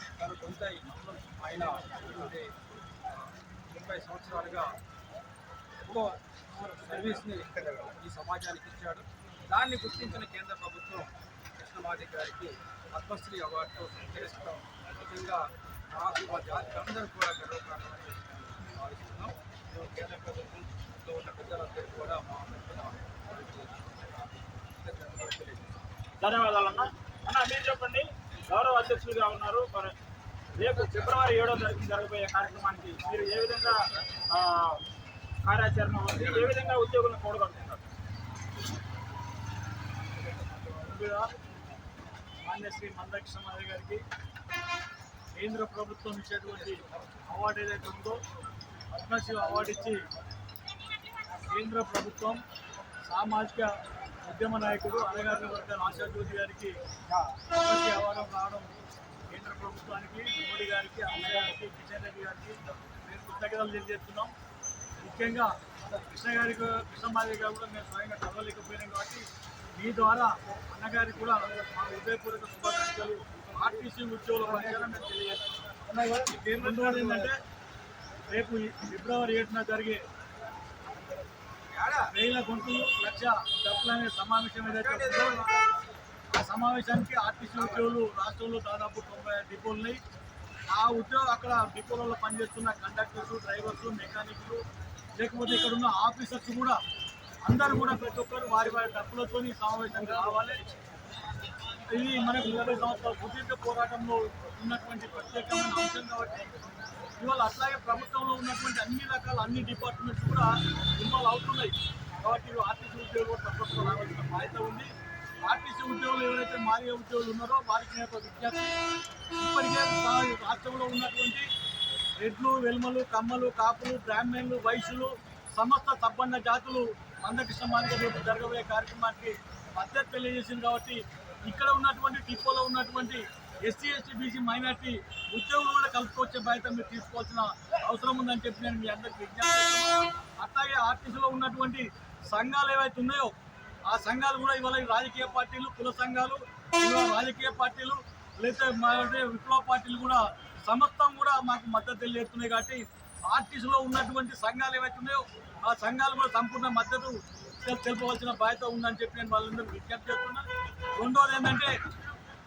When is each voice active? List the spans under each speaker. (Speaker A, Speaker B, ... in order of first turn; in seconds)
Speaker A: 0.2-2.5, 3.1-4.7, 5.8-25.7, 57.1-57.5, 61.1-61.5, 74.4-74.8, 76.0-77.3, 81.7-82.1, 84.7-85.6
Speaker B: 26.2-29.9, 30.6-34.8, 35.4-37.8
Speaker C: 40.6-41.3, 42.4-44.0, 45.4-48.2, 48.9-50.0, 51.5-52.4, 53.1-56.8, 57.5-58.7, 59.3-64.3, 65.0-69.3, 69.8-75.4, 76.4-77.4, 78.3-80.0, 82.1-85.4, 86.3-90.0, 90.7-94.6, 95.2-96.8, 97.5-100.6, 101.9-106.6, 107.2-114.9, 115.4-118.8, 119.4-121.5, 122.2-143.3, 143.9-160.5, 161.0-161.8